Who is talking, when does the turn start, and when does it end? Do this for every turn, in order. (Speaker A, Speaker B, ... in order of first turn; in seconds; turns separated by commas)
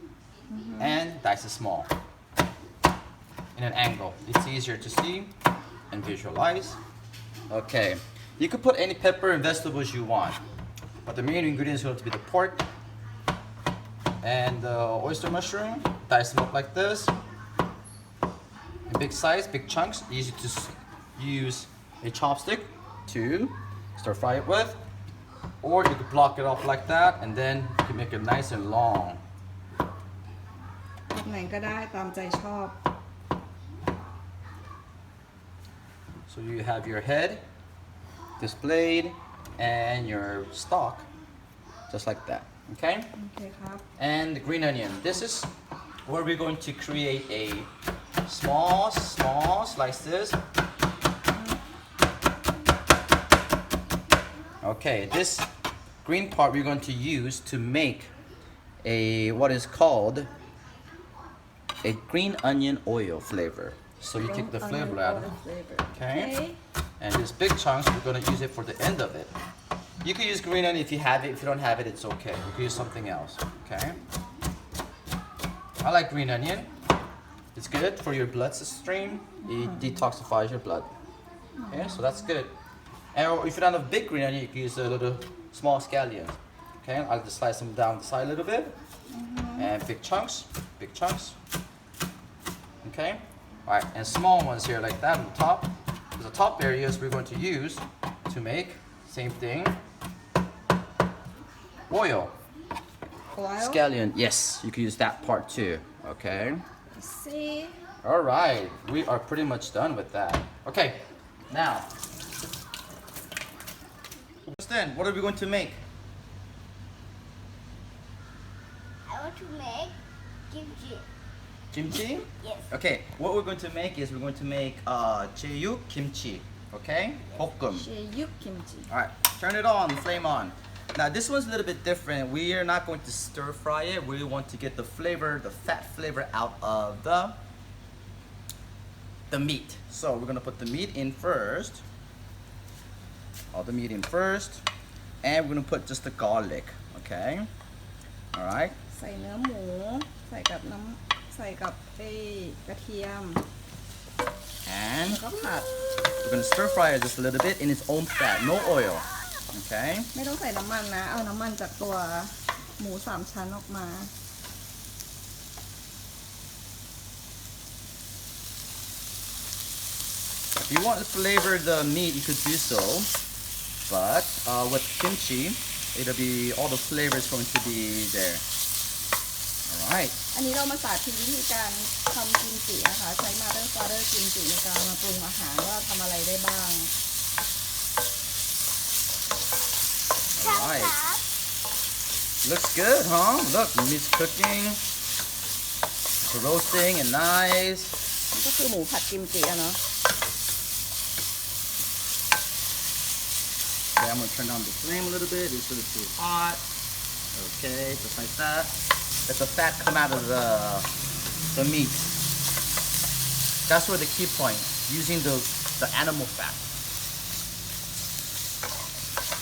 Speaker A: 0.5-1.0, Speaker B: 0.8-1.9, Speaker B: 3.5-5.3, Speaker B: 5.9-6.8, Speaker B: 7.5-10.4, Speaker B: 11.0-12.7, Speaker B: 14.2-17.1, Speaker B: 18.9-24.8, Speaker B: 25.6-29.2, Speaker A: 31.1-32.8, Speaker B: 36.3-37.4, Speaker B: 38.4-41.1, Speaker B: 41.9-43.1, Speaker A: 43.1-43.8, Speaker B: 44.0-45.5, Speaker B: 46.0-47.7, Speaker B: 48.2-50.4, Speaker A: 51.3-51.6, Speaker B: 54.6-55.5, Speaker B: 56.0-58.1, Speaker B: 58.8-60.3, Speaker B: 61.8-65.3, Speaker A: 64.2-66.6, Speaker B: 65.9-66.4, Speaker B: 67.0-69.3, Speaker B: 70.0-74.0, Speaker B: 75.8-76.7, Speaker B: 77.5-80.9, Speaker A: 81.6-82.0, Speaker B: 81.7-82.5, Speaker B: 83.1-88.8, Speaker A: 89.1-89.7, Speaker B: 89.6-91.3, Speaker B: 92.8-99.8, Speaker B: 101.9-102.3, Speaker A: 103.3-103.8, Speaker B: 103.6-106.6, Speaker A: 106.9-107.7, Speaker B: 108.0-111.9, Speaker B: 114.5-115.8, Speaker C: 119.1-120.0, Speaker C: 120.5-121.0, Speaker B: 121.7-127.9, Speaker C: 122.3-122.7, Speaker A: 127.7-128.9, Speaker B: 128.9-137.4, Speaker B: 139.3-141.8, Speaker B: 143.5-144.6, Speaker B: 145.2-147.5, Speaker B: 148.3-148.7, Speaker A: 148.9-153.4, Speaker B: 154.7-155.2, Speaker A: 155.1-155.7, Speaker B: 156.2-160.1, Speaker A: 160.1-164.1, Speaker B: 170.6-173.1, Speaker B: 173.9-178.4, Speaker B: 179.7-180.2, Speaker A: 180.3-186.9, Speaker B: 190.3-191.0, Speaker C: 190.4-191.2, Speaker B: 192.4-194.8, Speaker B: 196.2-197.9, Speaker A: 198.3-199.8, Speaker B: 204.0-206.6, Speaker B: 207.3-208.7, Speaker B: 209.3-210.9, Speaker B: 211.5-212.1, Speaker B: 213.7-216.7